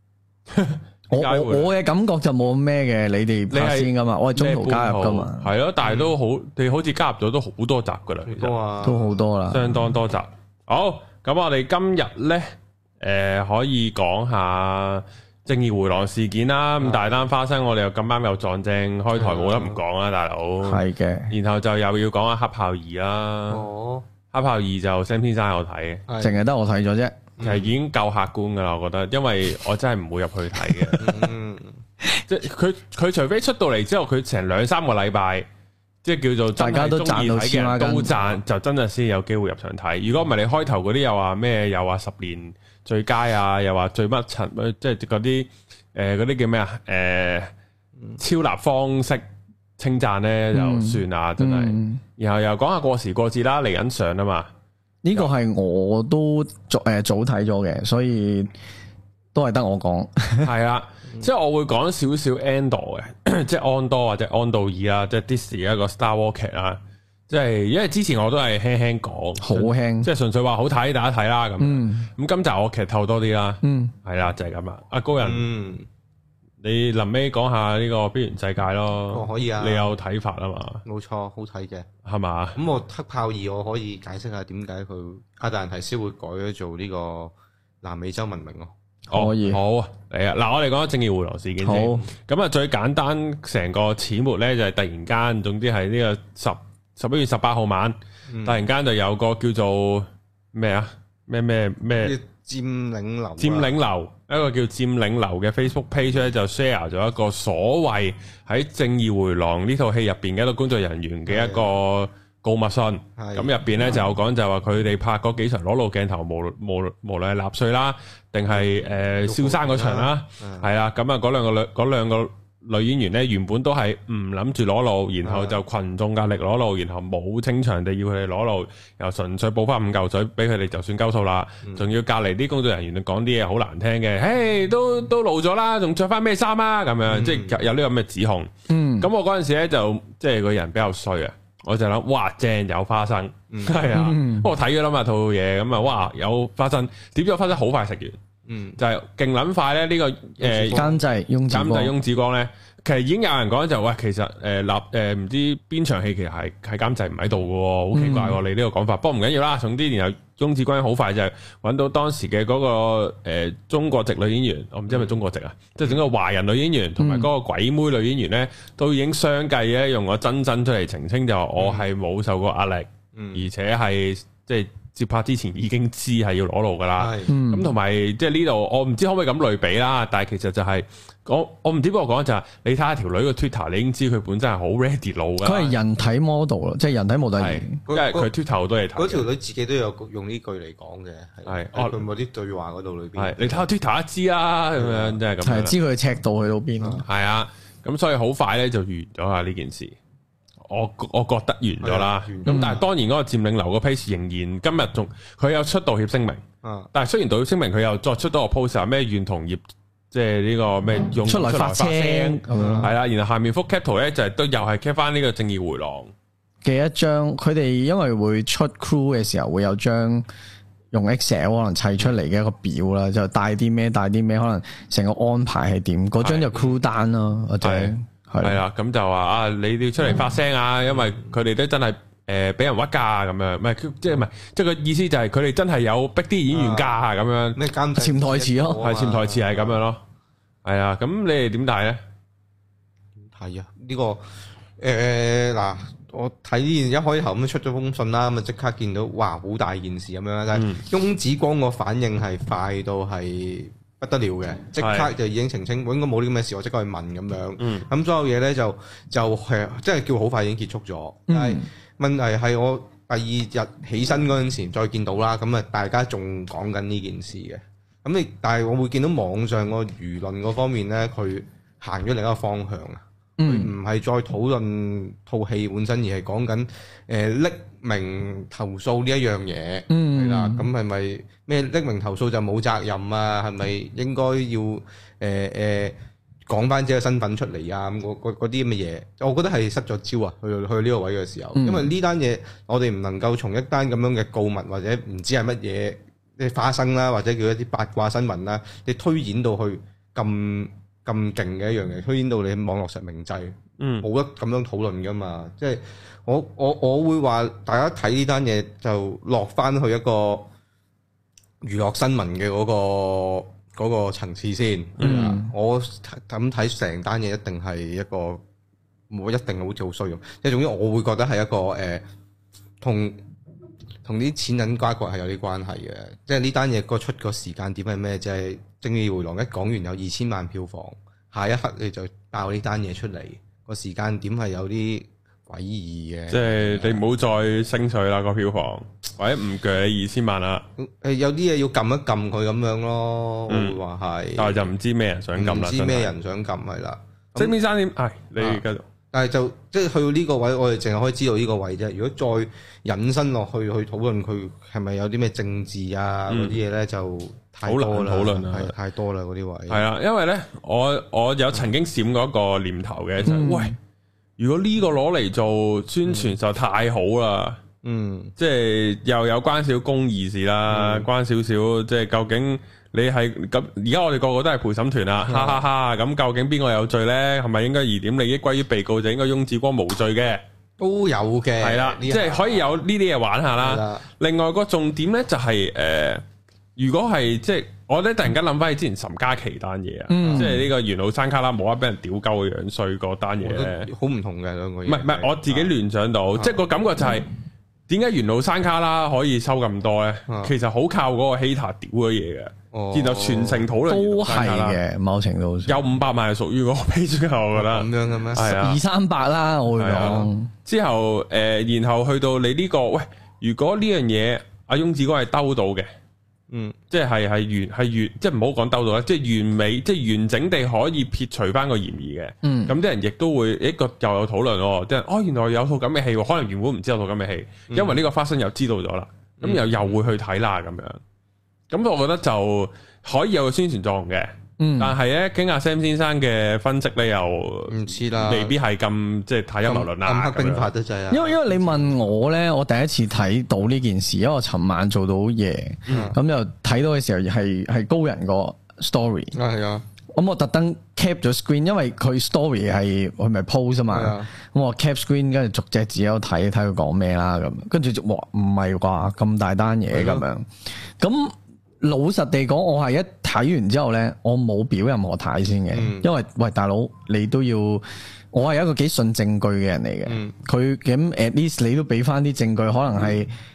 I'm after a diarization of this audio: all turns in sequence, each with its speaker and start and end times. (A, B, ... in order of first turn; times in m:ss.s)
0:00.5-0:01.7 A
0:01.1-0:05.5 B
0:03.5-0:08.5 A
0:05.8-0:06.1 C
0:08.3-0:09.2 C
0:08.8-0:09.9 B
0:09.5-0:12.5 A
0:13.0-0:23.6 A
0:16.8-0:17.3 C
0:19.2-0:19.8 C
0:20.6-0:21.3 B
0:23.5-0:24.0 C
0:24.3-0:26.0 A
0:26.1-0:26.4 C
0:26.2-0:27.2 B
0:27.4-0:27.7 C
0:27.4-0:31.2 A
0:30.7-0:31.0 B
0:31.0-0:31.8 C
0:32.3-0:35.5 A
0:36.0-0:47.5 A
0:36.6-0:38.1 B
0:48.2-0:49.2 A
0:49.8-0:54.5 A
0:50.5-0:52.0 B
0:55.0-0:58.5 B
0:59.3-1:00.5 B
1:00.4-1:15.5 A
1:09.4-1:10.1 B
1:11.6-1:12.1 B
1:13.6-1:13.9 B
1:15.2-1:15.9 C
1:16.6-1:20.8 A
1:19.1-1:19.9 C
1:20.8-1:21.9 C
1:22.0-1:22.6 A
1:22.6-1:28.7 C
1:29.1-1:42.2 A
1:29.1-1:29.6 B
1:31.6-1:32.0 B
1:38.3-1:38.6 C
1:42.0-1:43.7 C
1:43.4-2:28.2 A
1:51.3-1:51.7 C
1:53.2-1:53.5 C
1:58.5-2:00.7 C
2:05.2-2:05.6 C
2:17.1-2:17.6 C
2:18.7-2:19.1 B
2:23.5-2:23.9 C
2:23.9-2:24.5 B
2:28.5-2:28.8 C
2:28.8-2:30.8 A
2:30.4-2:31.0 C
2:30.7-2:32.0 B
2:31.5-3:05.7 A
2:37.9-2:38.4 B
2:47.0-2:47.3 B
2:51.6-2:51.9 C
2:53.1-2:53.5 C
2:57.0-2:57.3 C
2:57.3-2:57.7 B
3:05.4-3:07.8 B
3:07.4-3:09.3 A
3:07.9-3:08.3 C
3:09.0-3:13.6 C
3:11.4-3:12.0 A
3:13.2-3:15.7 A
3:14.8-3:15.2 C
3:15.4-3:17.0 B
3:17.0-3:20.0 A
3:20.7-3:36.1 A
3:21.8-3:22.7 C
3:22.4-3:22.8 B
3:26.6-3:26.9 C
3:31.2-3:32.9 B
3:32.5-3:32.9 C
3:36.6-3:40.2 B
3:40.9-3:48.6 B
3:46.2-3:46.7 A
3:47.6-3:57.6 A
3:56.5-3:56.9 C
3:57.5-3:59.8 C
3:57.9-3:58.8 B
3:58.8-4:00.0 A
4:00.6-4:02.0 A
4:03.3-4:04.2 C
4:04.8-4:46.0 C
4:10.5-4:10.8 A
4:14.8-4:15.1 A
4:17.6-4:17.8 A
4:21.3-4:21.6 B
4:33.4-4:33.7 B
4:39.9-4:40.7 B
4:46.5-5:10.5 C
4:51.5-4:51.9 B
5:03.8-5:04.1 A
5:11.6-5:18.4 C
5:15.0-5:15.3 A
5:15.0-5:15.5 B
5:19.1-5:22.0 C
5:22.8-5:23.2 C
5:24.0-5:37.0 C
5:36.3-5:40.6 A
5:40.8-5:44.6 C
5:43.5-5:43.8 A
5:44.4-5:46.1 A
5:45.4-5:47.6 C
5:47.4-5:48.8 A
5:48.4-5:59.8 C
5:56.3-5:56.6 A
5:57.6-5:58.7 A
5:59.7-6:03.8 A
6:03.2-6:03.8 B
6:04.4-6:07.6 A
6:06.0-6:06.3 C
6:07.8-6:08.3 C
6:08.4-6:20.4 A
6:10.7-6:11.1 C
6:15.2-6:15.6 C
6:20.8-6:22.7 C
6:21.6-6:26.2 A
6:23.6-6:24.0 C
6:26.8-6:33.9 A
6:30.1-6:30.6 B
6:30.2-6:30.6 C
6:33.4-6:35.7 C
6:34.8-6:37.3 A
6:36.3-6:36.6 C
6:37.9-6:44.8 A
6:40.3-6:40.5 C
6:42.7-6:43.7 C
6:43.8-6:45.7 B
6:45.7-6:48.8 A
6:47.5-6:48.5 C
6:48.4-6:50.5 B
6:49.8-6:55.9 A
6:49.9-6:50.3 C
6:56.5-6:56.8 C
6:56.9-7:11.0 A
7:02.4-7:02.7 B
7:07.7-7:08.0 C
7:09.4-7:09.8 C
7:11.7-7:20.7 A
7:14.6-7:15.0 B
7:17.7-7:18.5 C
7:19.6-7:21.9 C
7:21.1-7:29.3 B
7:25.9-7:26.1 A
7:25.9-7:26.2 C
7:29.3-7:29.8 C
7:30.1-7:40.5 B
7:33.9-7:34.3 C
7:39.9-7:40.2 C
7:41.0-7:53.3 B
7:45.7-7:46.1 C
7:50.0-7:50.4 C